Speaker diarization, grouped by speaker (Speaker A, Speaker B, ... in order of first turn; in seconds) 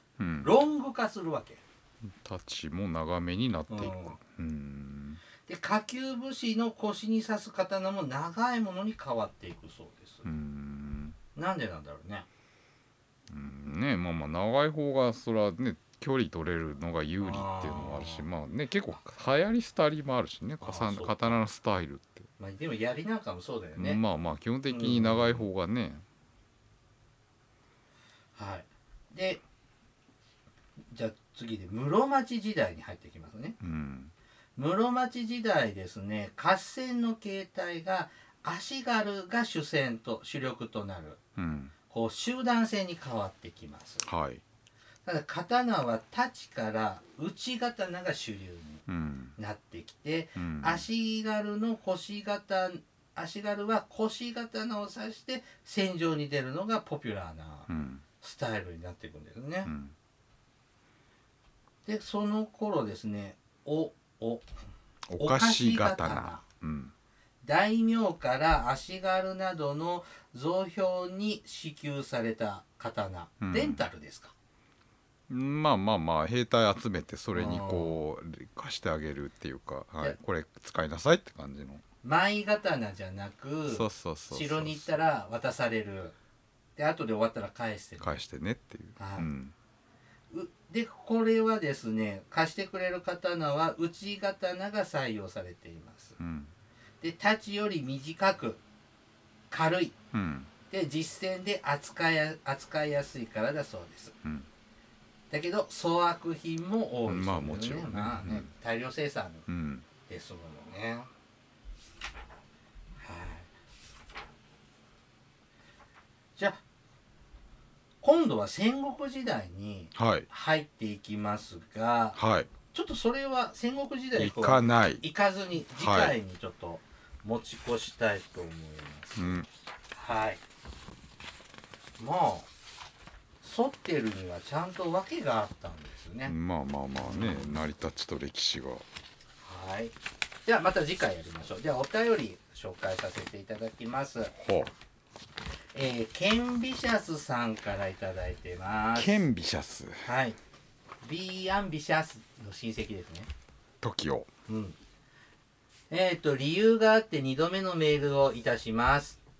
Speaker A: 0.2-0.5, 2.0-5.2, 10.2-11.2, 13.3-22.3, 23.8-26.0, 33.6-34.1, 41.4-41.7, 44.0-44.4, 48.9-49.3, 50.4-50.8, 57.7-58.0, 59.6-59.9, 65.1-66.9, 73.4-73.8, 75.3-81.8, 83.7-84.9, 88.0-89.5, 96.2-96.5, 100.1-100.5, 107.1-108.5, 109.5-109.8, 119.9-120.3, 122.2-122.5, 124.1-125.0, 125.8-126.2, 129.2-129.5, 136.2-138.8, 144.3-144.7, 148.9-150.0, 153.8-154.3
Speaker B: 0.4-1.6, 3.7-4.2, 5.5-10.3, 11.3-12.3, 17.2-18.3, 20.6-21.4, 22.4-24.0, 24.7-25.4, 28.4-29.4, 30.9-33.6, 34.5-41.2, 41.9-44.0, 45.0-48.8, 49.4-57.7, 58.2-59.7, 61.9-64.5, 65.2-66.4, 67.4-74.3, 77.3-78.0, 82.0-86.2, 86.8-88.2, 89.0-89.3, 90.3-96.2, 97.0-98.6, 99.5-99.9, 100.7-104.1, 105.3-109.5, 110.1-111.1, 113.0-113.5, 116.4-116.6, 118.0-122.2, 122.7-130.4, 132.0-132.5, 133.4-136.3, 137.0-137.6, 139.4-144.3, 145.7-149.2, 150.0-150.4, 151.0-153.3, 154.5-154.8, 155.9-159.2